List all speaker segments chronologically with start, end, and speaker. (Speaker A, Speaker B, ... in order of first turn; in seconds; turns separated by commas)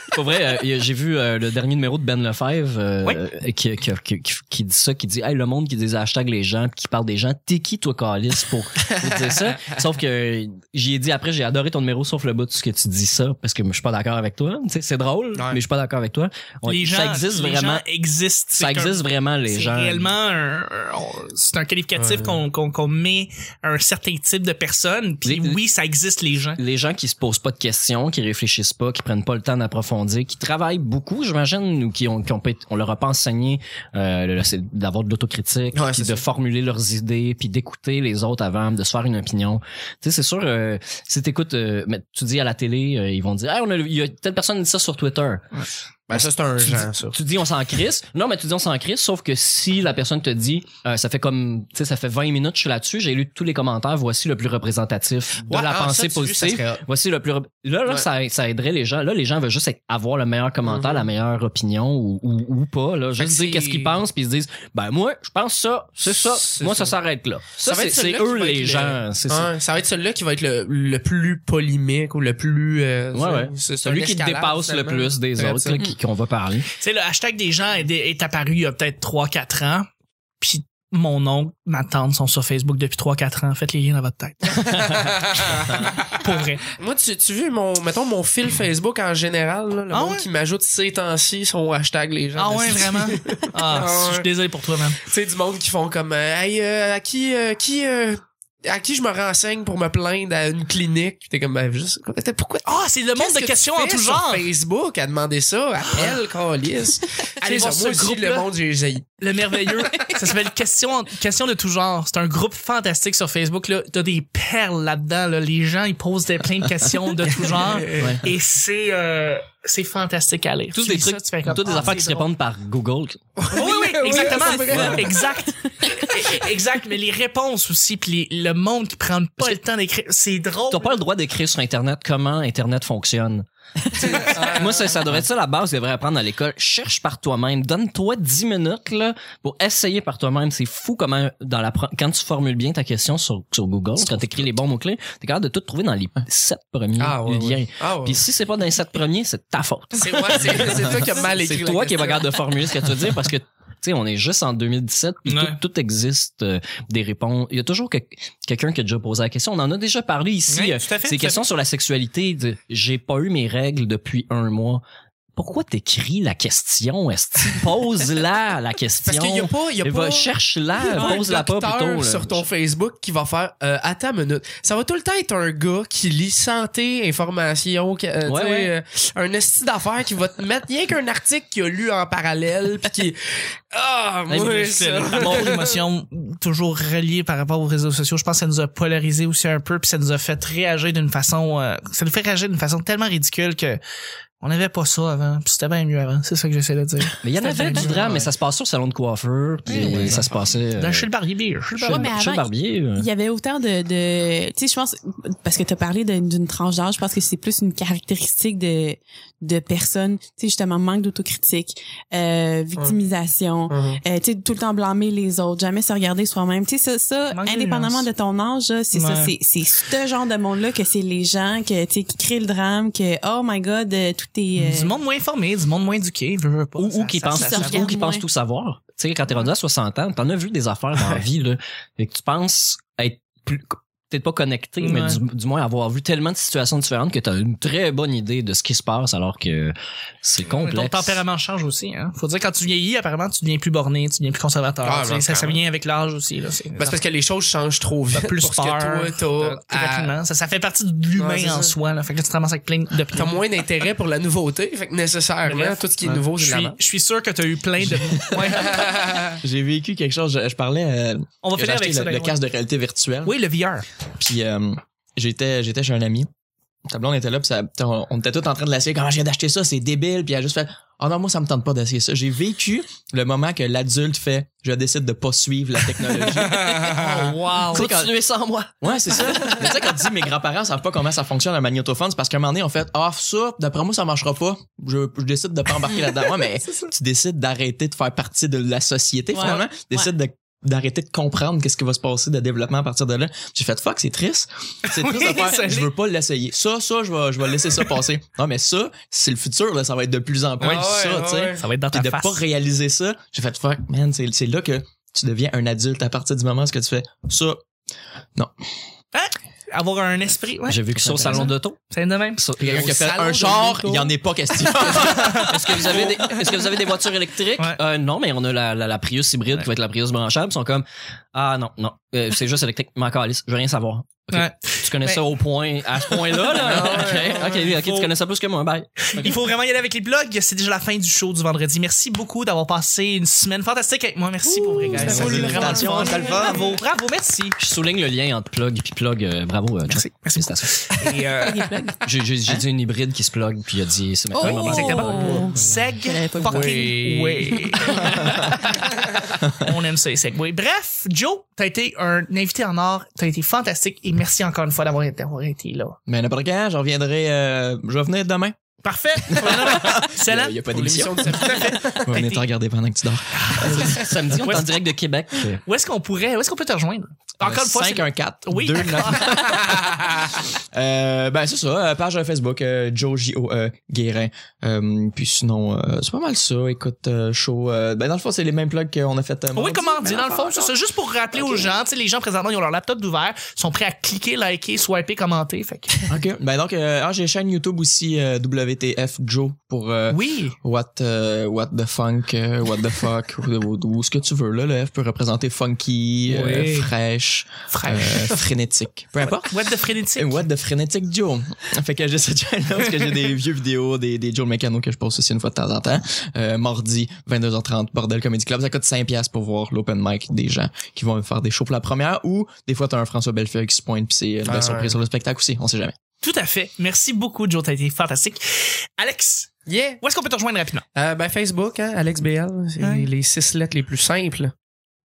Speaker A: 0.1-17.8, Speaker B: 8.9-9.8, Speaker B: 15.3-15.6, Speaker C: 16.6-26.6, Speaker A: 18.6-20.1, Speaker B: 22.0-22.4, Speaker A: 25.2-25.6, Speaker A: 26.6-45.4, Speaker B: 35.7-36.3, Speaker B: 46.1-47.2, Speaker A: 46.1-69.5, Speaker B: 55.4-56.9, Speaker B: 60.6-61.1, Speaker B: 63.2-64.0, Speaker B: 66.1-67.0, Speaker B: 67.6-75.9, Speaker A: 73.1-76.7, Speaker C: 76.8-79.9, Speaker C: 80.4-84.7, Speaker B: 84.5-94.3, Speaker C: 86.1-86.7, Speaker C: 89.9-90.3, Speaker C: 92.4-95.0, Speaker B: 95.0-109.1, Speaker C: 102.7-104.5, Speaker C: 107.4-108.5, Speaker C: 109.2-122.3, Speaker B: 117.4-118.2, Speaker A: 120.8-123.2, Speaker B: 123.4-125.2, Speaker C: 123.5-131.0, Speaker D: 124.1-124.6, Speaker A: 124.6-125.1, Speaker A: 130.7-164.8, Speaker B: 134.1-135.1, Speaker B: 147.0-148.3, Speaker B: 149.9-152.4, Speaker C: 155.3-155.6, Speaker C: 160.5-161.4, Speaker A: 165.4-172.5, Speaker B: 169.0-185.8, Speaker A: 178.2-178.7, Speaker C: 184.3-193.8, Speaker A: 185.0-185.6, Speaker C: 194.4-198.2, Speaker A: 197.2-201.1, Speaker B: 197.7-198.3, Speaker B: 199.7-200.4, Speaker C: 199.7-200.2, Speaker C: 200.8-202.1, Speaker A: 201.7-203.1, Speaker D: 201.8-225.0, Speaker B: 213.7-214.0, Speaker C: 217.3-218.1, Speaker C: 218.9-219.3, Speaker C: 224.6-227.9, Speaker A: 226.8-241.2, Speaker D: 227.3-228.3, Speaker C: 234.8-235.2, Speaker C: 240.4-247.0, Speaker B: 244.8-245.6, Speaker B: 246.8-250.1, Speaker C: 248.1-253.4, Speaker B: 251.2-251.7, Speaker B: 253.1-256.8, Speaker C: 255.4-258.9, Speaker E: 257.8-258.6, Speaker B: 258.4-259.4, Speaker E: 259.4-263.4, Speaker C: 261.4-262.4, Speaker C: 263.2-263.9, Speaker E: 264.2-266.3, Speaker E: 266.9-277.1, Speaker B: 276.8-277.3, Speaker C: 276.9-277.9, Speaker A: 277.7-279.6, Speaker E: 277.7-278.1, Speaker E: 278.8-307.6, Speaker D: 289.3-290.0, Speaker C: 294.9-295.9, Speaker C: 300.6-300.9, Speaker B: 300.6-301.6, Speaker C: 301.6-302.4, Speaker C: 309.1-312.4, Speaker A: 310.7-311.8, Speaker E: 311.0-311.4, Speaker A: 312.4-312.9, Speaker E: 312.6-315.8, Speaker B: 312.6-316.4, Speaker C: 315.2-315.4, Speaker A: 315.4-329.2, Speaker C: 324.3-325.2, Speaker C: 326.1-328.1, Speaker B: 326.6-327.6, Speaker C: 329.0-337.6, Speaker D: 334.5-336.6, Speaker E: 334.9-336.6, Speaker A: 334.9-335.7, Speaker B: 335.0-336.4, Speaker A: 337.6-340.9, Speaker C: 339.9-341.7, Speaker D: 341.4-342.0, Speaker A: 342.0-345.5, Speaker D: 344.3-347.0, Speaker C: 344.4-348.8, Speaker B: 346.4-348.1, Speaker D: 347.5-348.0, Speaker C: 349.5-356.0, Speaker E: 356.1-358.6, Speaker C: 358.8-360.6, Speaker E: 359.3-364.6, Speaker B: 360.7-362.0, Speaker C: 361.2-362.4, Speaker C: 363.6-364.7, Speaker A: 363.7-365.6, Speaker C: 365.7-369.6, Speaker E: 367.4-380.7, Speaker C: 379.6-386.1, Speaker E: 381.4-381.7, Speaker E: 386.1-399.6, Speaker C: 390.1-390.6, Speaker C: 396.3-396.9, Speaker C: 397.7-398.5, Speaker C: 399.3-400.4, Speaker E: 400.2-416.0, Speaker B: 414.5-414.9, Speaker C: 416.2-420.9, Speaker B: 419.7-420.0, Speaker B: 421.0-424.5, Speaker C: 422.8-423.1